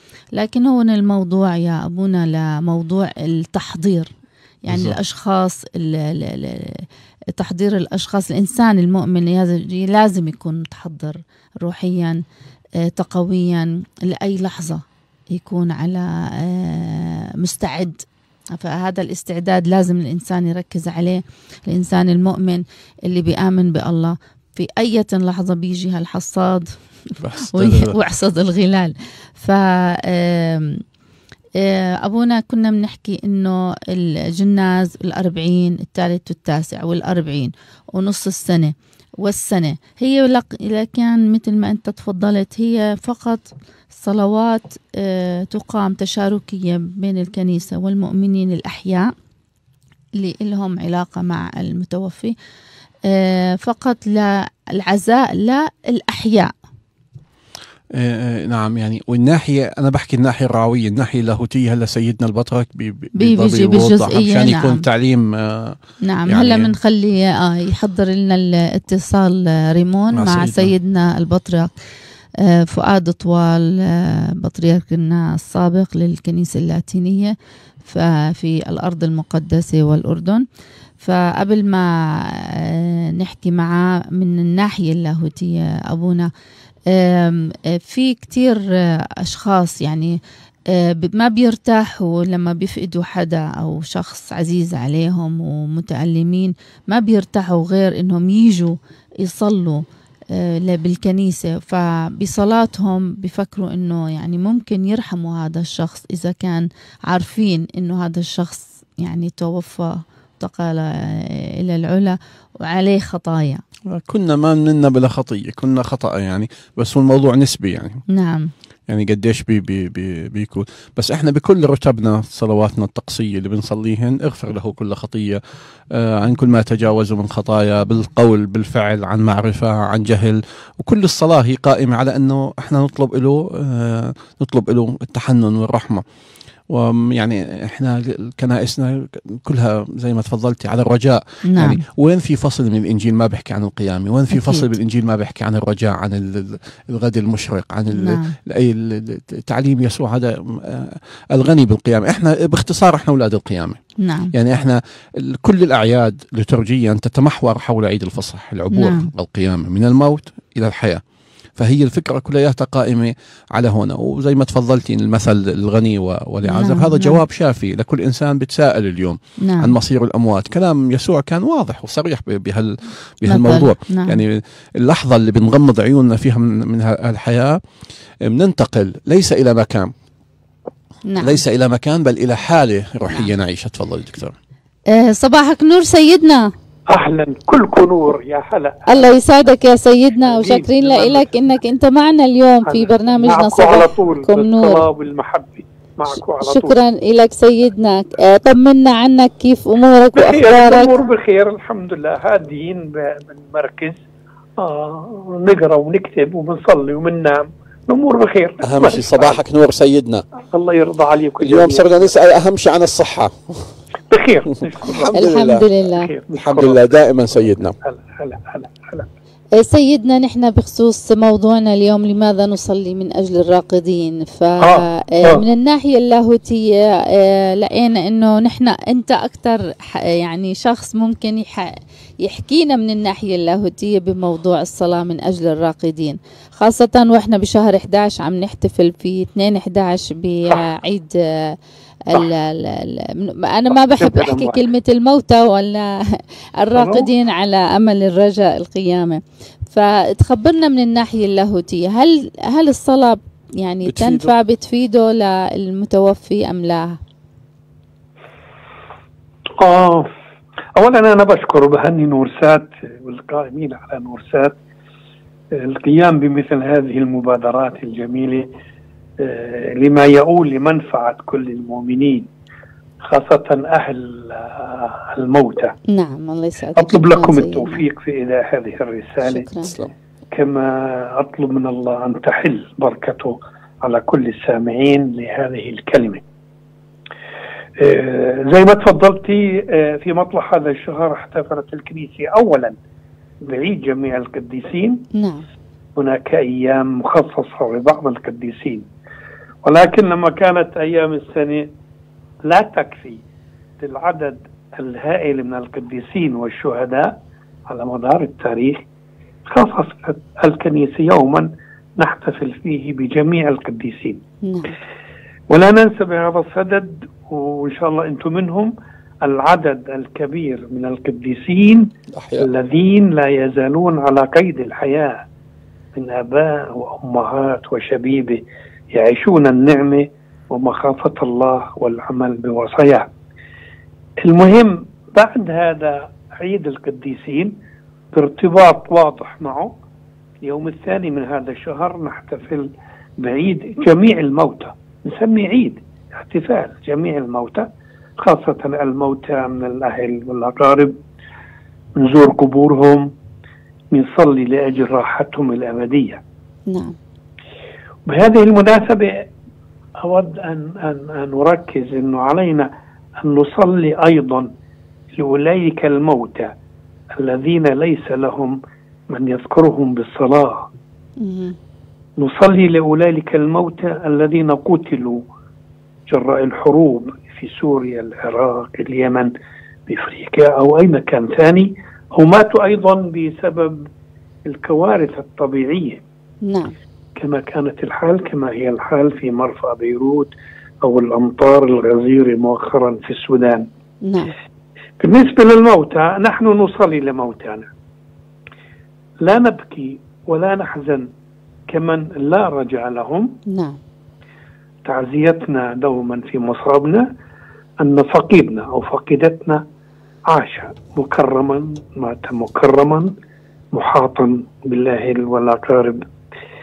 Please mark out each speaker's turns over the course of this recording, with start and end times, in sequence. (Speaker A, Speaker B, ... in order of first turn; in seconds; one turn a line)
Speaker A: 0.3-4.1
Speaker A: 4.7-6.8
Speaker B: 4.7-5.0
Speaker A: 7.3-12.2
Speaker A: 12.8-18.0
Speaker A: 18.6-26.7
Speaker B: 27.2-27.9
Speaker A: 27.5-30.8
Speaker A: 31.6-49.1
Speaker A: 50.2-52.3
Speaker A: 53.1-56.5
Speaker B: 57.9-66.7
Speaker A: 63.2-64.8
Speaker A: 66.0-71.7
Speaker B: 70.1-70.7
Speaker A: 72.4-77.3
Speaker A: 77.8-80.4
Speaker A: 81.0-86.3
Speaker A: 86.9-90.2
Speaker A: 90.7-113.6
Speaker B: 113.9-118.0
Speaker A: 118.1-118.5
Speaker B: 118.9-136.0
Speaker B: 136.7-153.8
Speaker A: 141.5-141.8
Speaker A: 144.3-144.7
Speaker A: 147.9-148.3
Speaker A: 154.0-154.3
Speaker B: 154.3-161.0
Speaker A: 158.7-159.1
Speaker B: 161.6-177.6
Speaker A: 166.4-167.2
Speaker A: 169.4-169.7
Speaker A: 173.3-174.2
Speaker B: 178.2-179.9
Speaker A: 181.1-181.4
Speaker B: 181.2-184.3
Speaker A: 184.9-186.5
Speaker C: 186.9-189.2
Speaker A: 188.9-194.9
Speaker C: 190.2-191.3
Speaker C: 192.7-196.8
Speaker A: 196.4-200.9
Speaker C: 200.1-204.0
Speaker C: 204.6-209.4
Speaker B: 208.6-210.2
Speaker C: 210.5-212.1
Speaker B: 211.4-213.8
Speaker C: 214.1-215.2
Speaker B: 214.8-215.7
Speaker A: 215.1-216.1
Speaker C: 215.8-219.1
Speaker B: 216.3-217.8
Speaker A: 219.6-241.6
Speaker C: 224.6-225.4
Speaker A: 242.1-257.0
Speaker C: 244.0-244.5
Speaker C: 246.8-247.1
Speaker B: 253.8-254.3
Speaker C: 259.6-260.1
Speaker C: 260.8-264.6
Speaker C: 265.5-268.5
Speaker C: 269.2-272.3
Speaker C: 273.0-275.7
Speaker A: 275.9-277.8
Speaker C: 276.8-279.5
Speaker A: 279.2-279.8
Speaker C: 280.3-286.2
Speaker C: 287.8-292.8
Speaker C: 293.4-295.1
Speaker A: 295.1-295.4
Speaker C: 295.9-298.9
Speaker C: 299.6-301.7
Speaker C: 302.4-303.2
Speaker C: 303.8-307.2
Speaker C: 307.7-308.8
Speaker C: 309.4-314.2
Speaker A: 314.4-314.7
Speaker C: 315.5-318.7
Speaker C: 319.2-325.2
Speaker B: 322.1-322.5
Speaker C: 325.9-333.1
Speaker C: 334.2-337.5
Speaker C: 338.1-339.7
Speaker C: 340.4-347.7
Speaker C: 348.2-351.0
Speaker C: 352.0-353.1
Speaker C: 353.9-356.2
Speaker A: 356.7-356.9
Speaker C: 358.1-359.2
Speaker C: 360.0-362.7
Speaker C: 363.2-364.5
Speaker C: 365.1-366.5
Speaker C: 367.1-368.6
Speaker C: 369.1-370.7
Speaker A: 371.2-371.6
Speaker C: 372.2-375.2
Speaker C: 376.1-379.3
Speaker C: 379.9-383.8
Speaker C: 384.5-386.0
Speaker A: 386.4-386.7
Speaker C: 387.1-393.7
Speaker A: 394.0-394.3
Speaker C: 395.0-397.7
Speaker C: 399.2-401.1
Speaker C: 401.7-403.4
Speaker A: 403.5-403.8
Speaker C: 404.8-407.1
Speaker C: 407.8-409.6
Speaker C: 410.3-413.1
Speaker C: 413.7-416.1